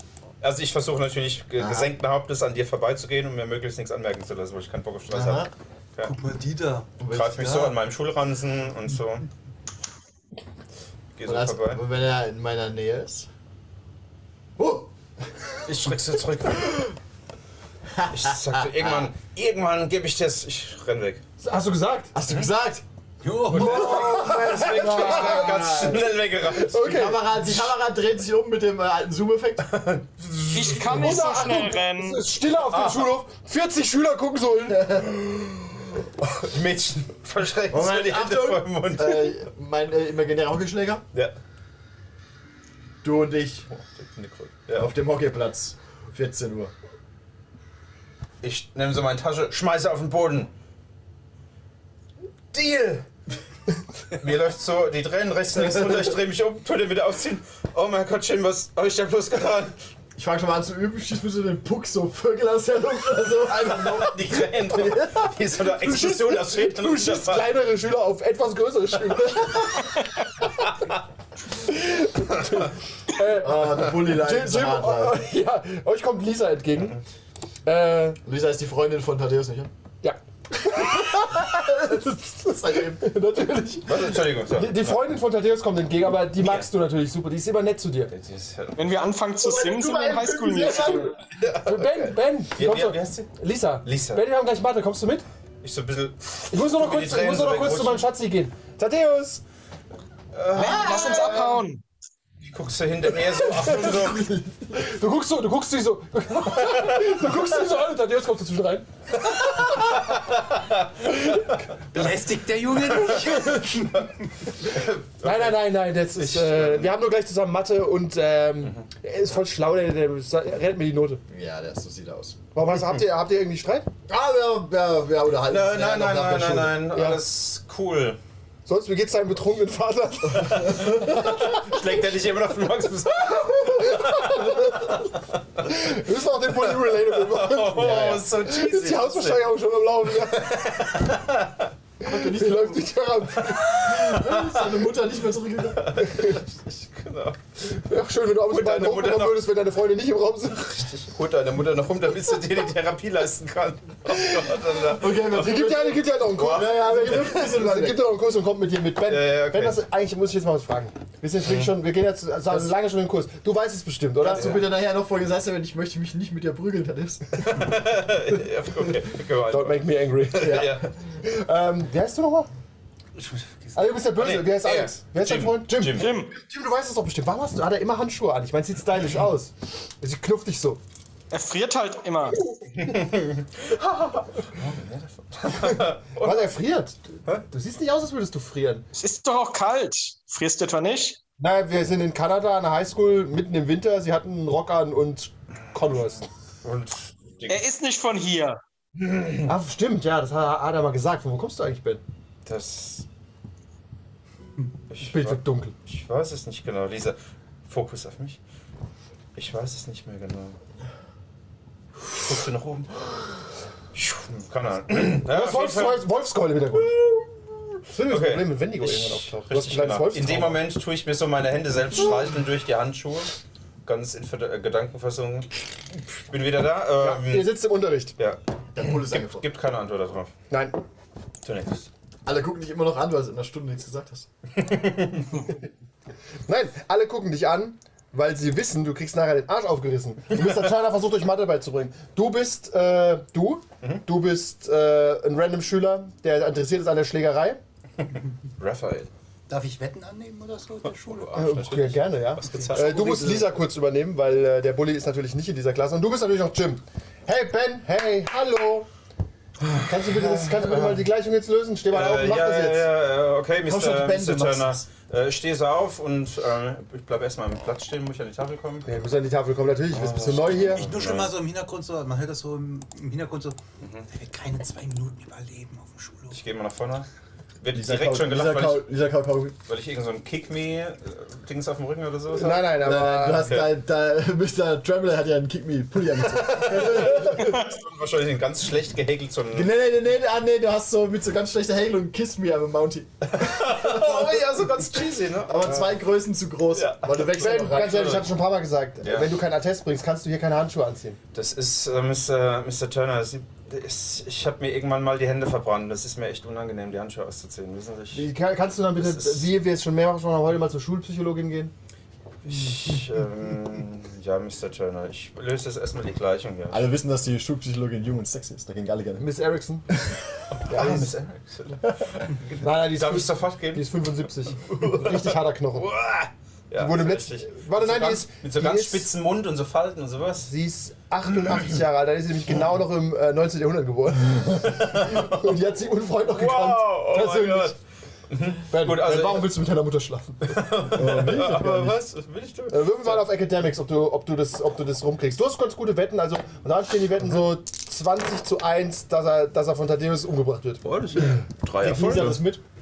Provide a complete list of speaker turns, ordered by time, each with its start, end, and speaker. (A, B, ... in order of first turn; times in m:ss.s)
0:00.4-0:06.1 A
0:01.6-0:01.9 B
0:05.1-0:05.5 B
0:06.0-0:06.9 C
0:07.0-0:07.7 B
0:07.1-0:09.3 A
0:11.2-0:11.8 A
0:11.2-0:13.3 B
0:14.6-0:14.9 B
0:15.6-0:16.9 A
0:18.0-0:19.1 B
0:18.1-0:21.2 A
0:21.4-0:22.1 D
0:22.1-0:22.8 B
0:23.2-0:24.4 C
0:23.5-0:27.6 D
0:23.5-0:26.7 A
0:23.7-0:26.1 B
0:26.6-0:29.7 B
0:29.7-0:31.2 A
0:30.5-0:32.2 E
0:30.8-0:35.7 D
0:32.7-0:33.1 A
0:34.7-0:35.1 B
0:36.2-0:39.4 A
0:37.7-0:41.0 B
0:43.0-0:43.7 B
0:43.7-0:44.9 A
0:44.7-0:46.7 B
0:48.4-0:50.5 A
0:52.5-0:53.1 A
0:54.1-0:59.8 A
0:55.5-0:56.1 B
1:00.2-1:05.4 B
1:03.5-1:07.5 A
1:05.8-1:10.0 D
1:11.6-1:17.0 D
1:13.2-1:15.2 B
1:16.8-1:17.0 A
1:17.6-1:18.2 D
1:18.2-1:19.7 B
1:20.0-1:28.1 D
1:22.4-1:23.1 B
1:23.8-1:25.0 A
1:26.4-1:26.7 A
1:28.1-1:29.2 A
1:28.7-1:31.1 E
1:29.4-1:31.1 B
1:30.5-1:31.1 D
1:31.2-1:34.2 A
1:31.6-1:35.2 D
1:35.6-1:38.0 A
1:36.5-1:39.4 D
1:40.3-1:41.6 A
1:40.5-1:41.8 E
1:42.4-1:44.3 A
1:43.4-1:43.9 D
1:43.4-1:44.8 B
1:44.7-1:48.9 D
1:49.5-1:50.8 A
1:51.1-1:51.4 D
1:51.9-1:54.3 C
1:53.2-1:53.7 D
1:54.6-1:56.9 A
1:55.2-2:01.2 D
2:01.3-2:02.4 B
2:02.5-2:03.9 D
2:04.1-2:06.8 B
2:05.5-2:08.2 A
2:06.9-2:07.2 D
2:08.7-2:11.6 D
2:10.6-2:15.2 A
2:10.6-2:11.1 B
2:13.4-2:15.1 D
2:15.6-2:21.0 D
2:16.6-2:19.5 A
2:20.2-2:21.7 A
2:22.0-2:23.8 D
2:22.0-2:22.9 B
2:23.4-2:24.8 A
2:23.7-2:25.9 B
2:25.7-2:27.4 A
2:26.0-2:26.4 D
2:27.6-2:30.9 D
2:28.5-2:29.4 A
2:30.9-2:35.8 A
2:34.0-2:34.5 D
2:34.9-2:38.0 B
2:35.3-2:44.6 D
2:36.4-2:36.8 A
2:39.0-2:39.8 A
2:41.4-2:41.8 A
2:44.2-2:47.4 B
2:44.3-2:44.7 A
2:47.4-2:50.9 A
2:49.5-2:52.5 D
2:50.3-2:50.8 B
2:53.1-2:53.8 C
2:53.7-3:00.8 D
2:54.2-2:56.1 A
2:55.9-2:56.4 E
3:01.3-3:02.4 E
3:02.6-3:02.9 D
3:02.7-3:06.5 A
3:05.5-3:07.0 D
3:07.5-3:08.8 D
3:09.0-3:11.2 E
3:11.4-3:16.3 D
3:15.9-3:17.6 A
3:17.5-3:18.6 E
3:19.0-3:19.5 A
3:19.4-3:22.0 D
3:22.4-3:23.0 A
3:24.9-3:28.4 A
3:25.0-3:25.7 D
3:29.4-3:30.6 A
3:32.1-3:33.0 A
3:33.9-3:36.0 A
3:35.2-3:36.9 D
3:36.7-3:43.3 A
3:37.9-3:40.6 D
3:43.8-3:47.5 A
3:47.0-3:48.1 D
3:48.2-3:50.3 A
3:48.7-3:49.4 B
3:50.5-3:50.8 D
3:51.4-3:51.9 A
3:52.2-3:54.3 B
3:54.6-3:55.4 A
3:56.5-4:07.6 D
4:08.1-4:09.1 A
4:09.5-4:11.6 C
4:10.8-4:13.5 A
4:11.3-4:18.9 D
4:12.4-4:13.5 C
4:19.6-4:21.1 A
4:19.8-4:22.9 D
4:21.9-4:28.9 A
4:23.6-4:24.8 B
4:28.8-4:30.8 D
4:29.9-4:31.3 A
4:30.6-4:33.6 C
4:33.8-4:34.1 A
4:34.1-4:36.4 C
4:36.3-4:37.1 A
4:37.6-4:38.8 A
4:37.7-4:39.6 B
4:39.7-4:42.7 A
4:42.3-4:43.5 D
4:42.8-4:47.6 B
4:46.5-4:49.7 A
4:49.5-4:54.7 B
4:53.3-4:55.8 A
4:55.4-4:58.3 B
4:56.7-4:58.3 A
4:57.4-5:01.2 D
4:59.0-4:59.3 A
5:01.3-5:08.3 A
5:08.1-5:11.7 D
5:09.0-5:09.5 A
5:12.4-5:16.9 A
5:16.7-5:19.3 B
5:19.2-5:19.8 D
5:20.5-5:30.5 A
5:20.7-5:21.1 D
5:22.6-5:25.9 D
5:26.8-5:29.1 D
5:30.4-5:37.7 D
5:34.7-5:35.4 A
5:36.2-5:37.8 A
5:38.3-5:39.5 A
5:38.7-5:40.6 D
5:40.5-5:43.3 A
5:40.9-5:42.0 B
5:42.7-5:50.8 D
5:50.8-5:52.4 A
5:51.8-5:52.6 B